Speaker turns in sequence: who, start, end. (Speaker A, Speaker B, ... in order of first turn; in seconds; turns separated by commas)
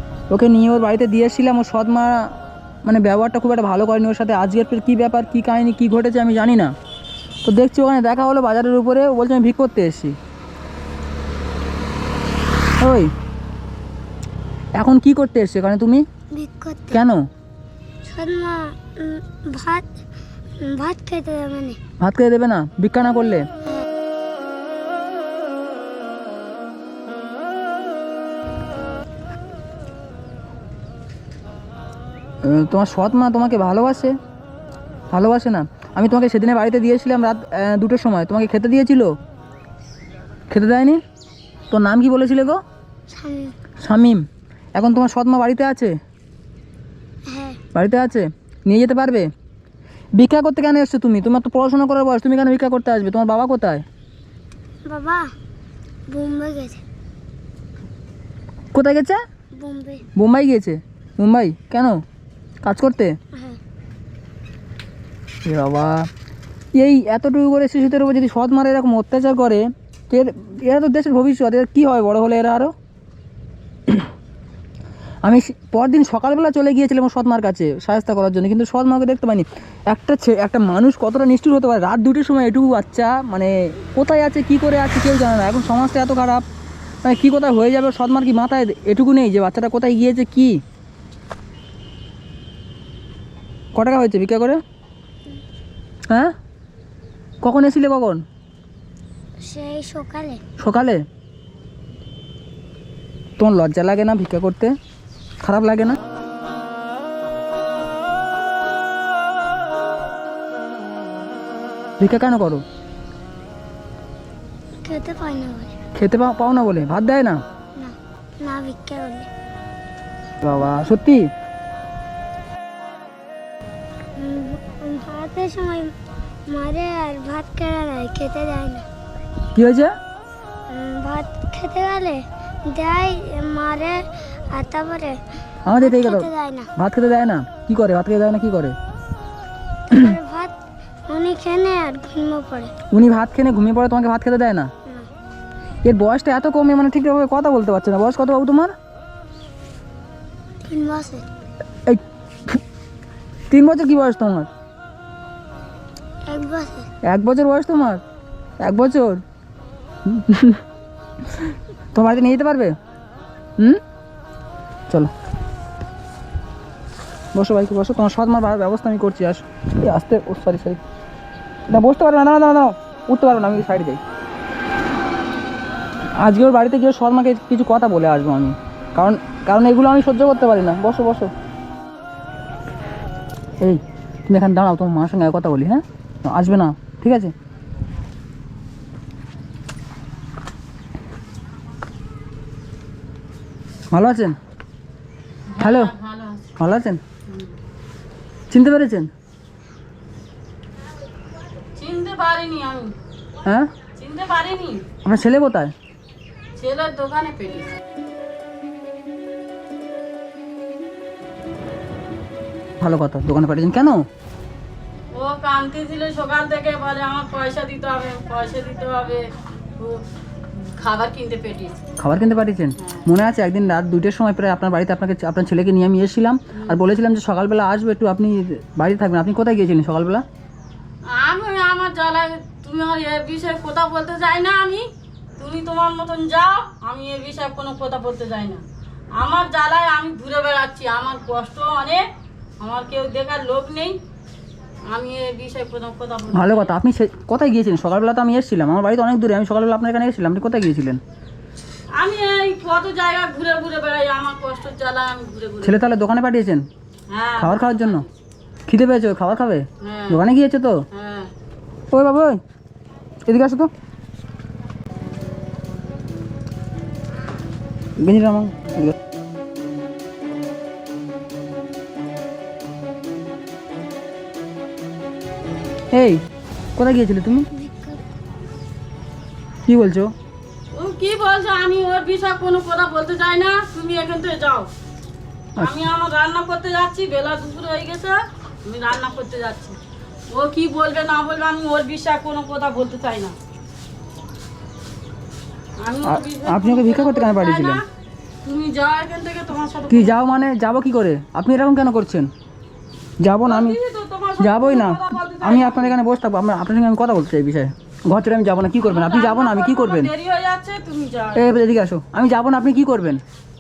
Speaker A: 0.3-2.2, Speaker A: 2.9-6.7, Speaker A: 7.4-10.2, Speaker A: 12.8-13.1, Speaker A: 14.8-16.0, Speaker B: 16.3-17.0, Speaker A: 16.9-17.2, Speaker B: 18.0-19.9, Speaker B: 20.6-21.8, Speaker A: 22.0-23.5, Speaker A: 32.4-34.1, Speaker A: 35.1-39.1, Speaker A: 40.5-41.0, Speaker A: 41.7-42.6, Speaker B: 43.1-43.5, Speaker A: 43.8-44.2, Speaker A: 44.8-45.9, Speaker B: 47.2-47.6, Speaker A: 47.8-49.3, Speaker A: 50.2-53.8, Speaker B: 54.9-55.3, Speaker B: 56.1-56.8, Speaker A: 58.7-59.2, Speaker B: 59.5-60.0, Speaker A: 60.2-62.0, Speaker A: 62.6-63.1, Speaker B: 63.3-63.6, Speaker A: 65.4-66.1, Speaker A: 66.8-72.7, Speaker A: 75.2-86.4, Speaker A: 87.0-90.6, Speaker A: 93.8-94.6, Speaker A: 97.4-98.2, Speaker B: 99.4-100.4, Speaker A: 100.6-101.0, Speaker A: 103.4-104.7, Speaker A: 105.4-106.0, Speaker A: 112.0-112.6, Speaker B: 114.8-115.8, Speaker A: 115.9-117.4, Speaker B: 117.8-119.3, Speaker A: 120.4-121.3, Speaker B: 124.2-125.9, Speaker B: 126.5-128.8, Speaker A: 129.5-129.9, Speaker B: 130.7-135.2, Speaker A: 135.7-138.8, Speaker B: 135.8-136.7, Speaker B: 139.9-140.5, Speaker B: 141.1-142.7, Speaker A: 142.9-144.7, Speaker A: 145.8-148.7, Speaker B: 150.6-151.2, Speaker A: 151.8-152.6, Speaker A: 153.5-154.5, Speaker B: 156.3-156.9, Speaker A: 157.0-158.0, Speaker A: 158.6-159.2, Speaker A: 160.0-160.6, Speaker A: 161.2-162.7, Speaker A: 167.3-170.8, Speaker A: 171.7-174.0, Speaker A: 176.2-181.3, Speaker A: 183.6-187.3, Speaker A: 193.9-194.4, Speaker C: 195.5-196.5, Speaker A: 195.6-195.9, Speaker A: 196.6-197.0, Speaker A: 198.5-199.1, Speaker C: 201.8-202.9, Speaker C: 204.0-204.8, Speaker A: 205.0-205.7, Speaker C: 206.6-207.7, Speaker A: 212.8-214.0, Speaker C: 215.1-220.0, Speaker C: 220.6-221.8, Speaker A: 222.0-230.2, Speaker C: 222.8-223.1, Speaker C: 231.1-238.6, Speaker C: 239.2-242.1, Speaker C: 242.6-244.0, Speaker C: 244.9-246.8, Speaker A: 246.3-251.0, Speaker C: 252.0-255.8, Speaker A: 255.6-256.6, Speaker C: 257.1-258.0, Speaker A: 257.4-258.0, Speaker A: 258.7-260.8, Speaker C: 259.8-260.2, Speaker C: 260.9-261.3, Speaker A: 261.9-262.4, Speaker A: 263.3-263.7, Speaker A: 268.0-268.9, Speaker A: 275.9-276.2, Speaker A: 276.8-277.5, Speaker B: 277.5-278.0, Speaker A: 279.7-280.1, Speaker C: 280.7-284.7, Speaker A: 285.6-285.8, Speaker C: 285.6-289.8, Speaker C: 290.3-293.4, Speaker C: 295.8-297.9, Speaker A: 296.0-297.8, Speaker C: 298.4-300.3, Speaker A: 299.9-302.3, Speaker A: 303.2-303.8, Speaker C: 303.4-305.9, Speaker A: 304.4-310.1, Speaker C: 308.8-311.5, Speaker A: 311.4-313.2